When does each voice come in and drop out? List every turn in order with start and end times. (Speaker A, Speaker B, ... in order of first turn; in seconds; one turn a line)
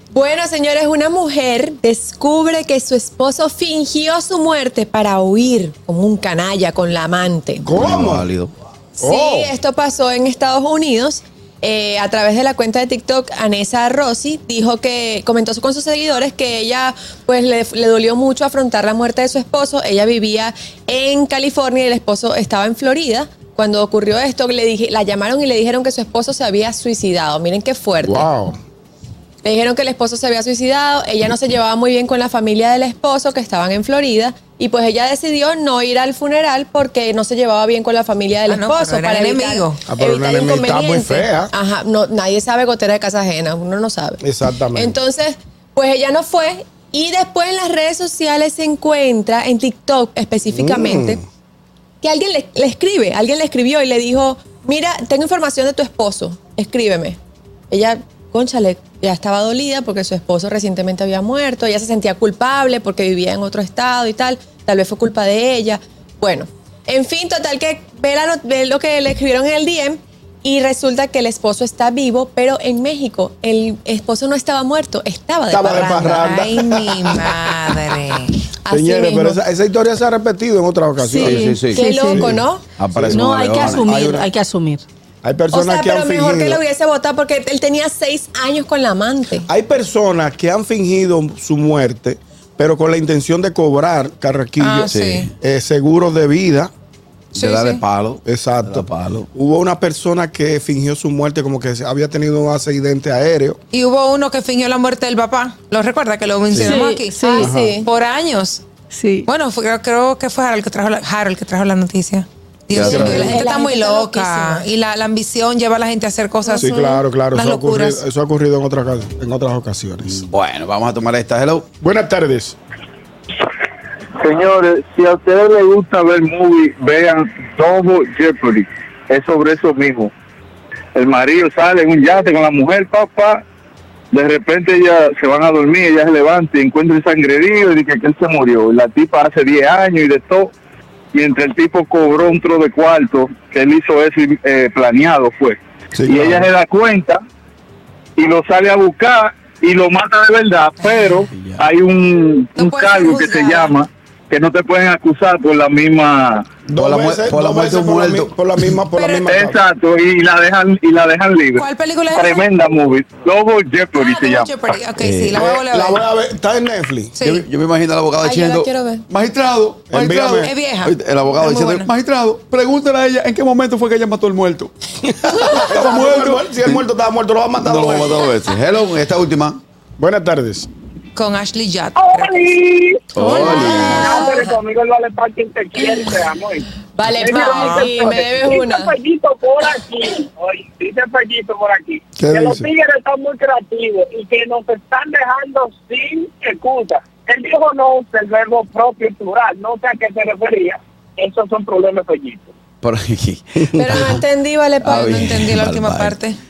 Speaker A: 0.1-7.7
Speaker B: 7.6-8.2
Speaker C: 7.8-8.5
Speaker A: 9.0-28.3
Speaker B: 9.0-9.6
Speaker B: 28.1-28.5
Speaker A: 29.4-44.2
Speaker D: 38.5-39.9
Speaker B: 39.9-41.5
Speaker B: 44.2-45.0
Speaker A: 44.8-51.2
Speaker B: 50.5-51.2
Speaker A: 52.0-57.2
Speaker A: 57.7-76.3
Speaker B: 75.5-77.3
Speaker D: 75.8-78.5
Speaker A: 78.6-79.5
Speaker B: 78.7-81.6
Speaker E: 81.0-82.3
Speaker C: 81.1-82.0
Speaker A: 81.6-82.8
Speaker B: 82.1-84.3
Speaker C: 82.8-83.9
Speaker E: 83.1-84.8
Speaker B: 85.2-86.6
Speaker A: 85.5-89.5
Speaker B: 89.5-96.7
Speaker D: 94.6-95.3
Speaker C: 94.9-95.3
Speaker C: 97.3-99.3
Speaker D: 97.4-97.8
Speaker B: 98.3-103.6
Speaker D: 103.7-108.7
Speaker E: 106.6-107.5
Speaker A: 107.2-107.9
Speaker E: 108.9-109.3
Speaker D: 109.3-118.0
Speaker C: 112.7-113.4
Speaker A: 112.8-114.7
Speaker B: 116.6-120.2
Speaker C: 120.0-121.7
Speaker B: 121.8-122.6
Speaker F: 124.2-130.1
Speaker F: 130.9-133.4
Speaker F: 134.1-140.5
Speaker F: 141.1-147.2
Speaker B: 145.9-146.5
Speaker F: 148.2-156.4
Speaker D: 150.8-151.1
Speaker C: 151.3-151.7
Speaker D: 152.6-153.8
Speaker B: 156.7-159.6
Speaker C: 156.8-158.6
Speaker D: 158.9-159.4
Speaker F: 159.2-164.5
Speaker D: 161.6-162.5
Speaker D: 163.9-166.1
Speaker C: 165.0-165.4
Speaker B: 165.4-167.1
Speaker D: 167.1-167.5
Speaker C: 167.2-174.7
Speaker A: 168.2-169.0
Speaker B: 169.9-170.5
Speaker D: 170.2-171.9
Speaker B: 175.2-178.1
Speaker D: 175.4-175.7
Speaker C: 175.5-176.8
Speaker C: 177.6-179.6
Speaker B: 180.0-180.7
Speaker D: 181.2-182.5
Speaker G: 182.0-202.5
Speaker C: 183.2-184.1
Speaker D: 183.2-184.4
Speaker A: 186.9-188.9
Speaker D: 187.3-188.0
Speaker B: 192.2-192.7
Speaker C: 202.8-204.2
Speaker A: 203.7-205.3
Speaker C: 204.8-206.2
Speaker D: 204.9-206.4